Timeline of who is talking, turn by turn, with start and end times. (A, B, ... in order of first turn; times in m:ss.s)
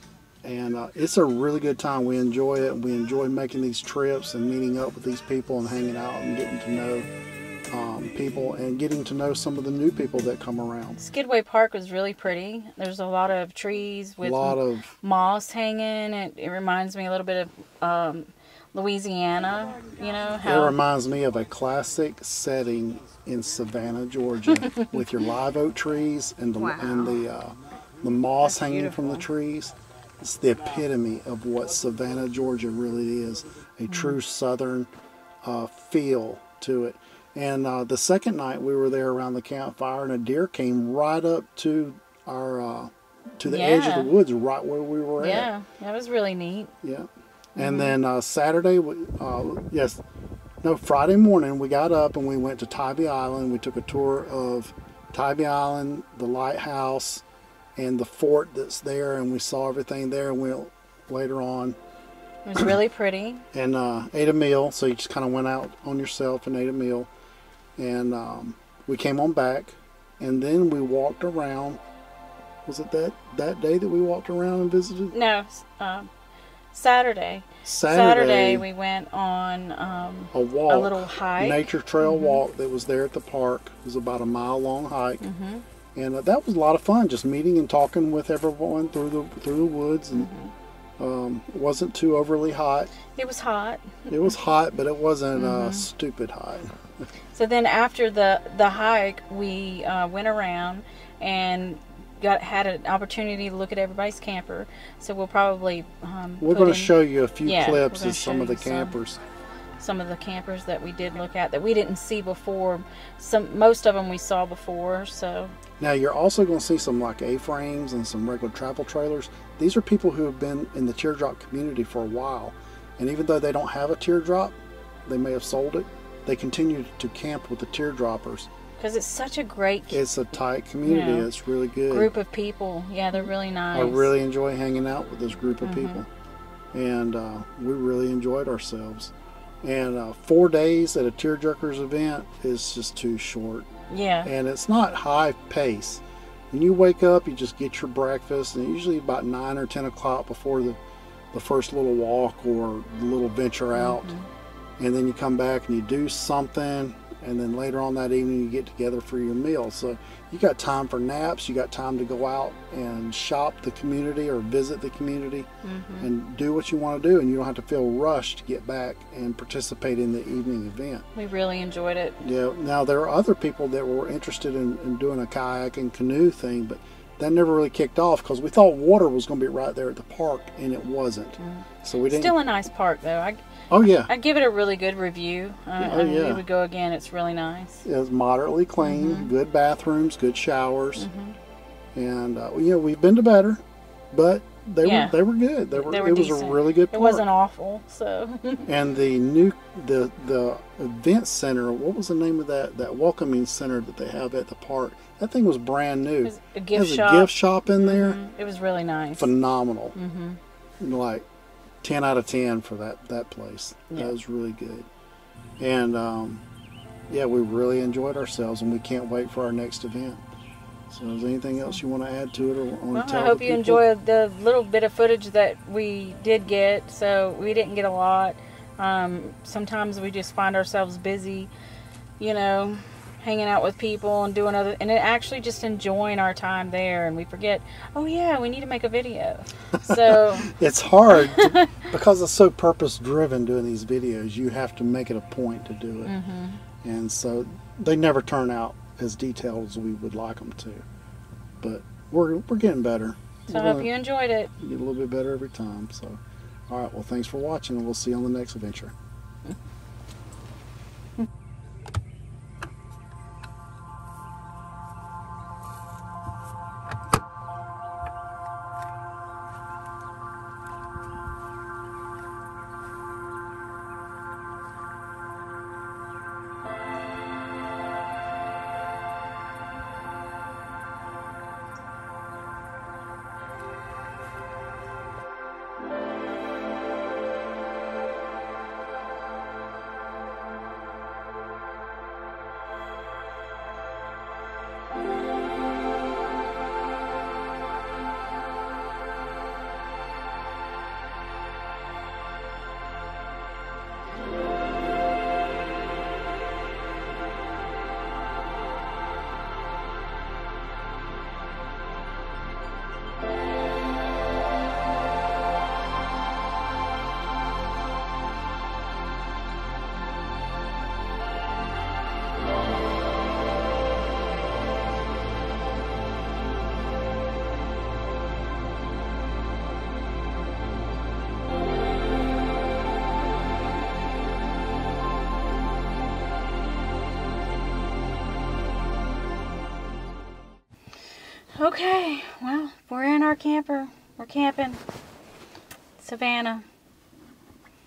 0:00.4-0:07.1 A
0:07.7-0:11.0 A
0:11.0-0:20.8 B
0:14.2-0:14.9 A
0:20.4-0:34.9 A
0:33.9-0:34.2 B
0:35.4-0:45.5 A
0:43.4-0:44.1 B
0:45.2-0:46.7 B
0:46.8-0:50.0 A
0:47.6-0:47.9 B
0:50.6-0:57.2 A
0:57.8-1:01.8 A
1:02.4-1:03.4 B
1:03.5-1:07.1 A
1:07.8-1:11.8 A
1:12.7-1:15.2 A
1:15.1-1:16.1 B
1:16.7-1:22.4 B
1:17.6-1:18.6 A
1:20.3-1:25.2 A
1:25.2-1:25.6 B
1:26.0-1:30.3 A
1:30.1-1:30.5 B
1:31.0-1:32.9 A
1:33.2-1:34.1 B
1:34.1-1:36.7 A
1:35.4-1:35.8 B
1:37.3-1:48.9 B
1:46.4-1:49.2 A
1:49.8-1:55.5 B
1:55.8-2:04.6 A
2:05.1-2:08.5 A
2:08.8-2:10.0 B
2:09.9-2:12.1 A
2:10.8-2:11.3 B
2:11.9-2:14.1 B
2:13.7-2:16.1 A
2:15.6-2:16.0 B
2:16.7-2:23.7 A
2:23.9-2:24.3 B
2:24.2-2:30.8 A
2:31.3-2:34.1 A
2:33.7-2:34.2 B
2:34.8-2:45.5 A
2:45.6-2:46.1 B
2:46.0-2:51.1 A
2:51.2-2:52.2 B
2:52.2-3:02.3 A
3:01.4-3:03.4 B
3:03.7-3:04.1 A
3:04.1-3:07.8 B
3:05.8-3:06.4 A
3:07.8-3:11.1 A
3:08.8-3:09.3 B
3:11.0-3:11.4 B
3:12.0-3:13.6 A
3:14.1-3:17.2 A
3:14.8-3:15.2 B
3:15.8-3:18.7 B
3:18.7-3:28.2 A
3:26.2-3:29.3 B
3:29.2-3:30.0 A
3:30.0-3:30.4 B
3:30.8-3:31.2 A
3:31.8-3:34.9 A
3:35.6-3:36.4 A
3:37.1-3:40.2 A
3:40.9-3:43.8 A
3:42.9-3:51.5 B
3:52.2-4:00.5 B
3:59.8-4:06.1 A
4:01.3-4:01.6 B
4:06.0-4:06.6 B
4:06.8-4:10.8 A
4:11.6-4:13.9 A
4:13.5-4:14.5 B
4:14.6-4:18.9 A
5:41.5-5:44.8 B
5:46.0-5:46.6 B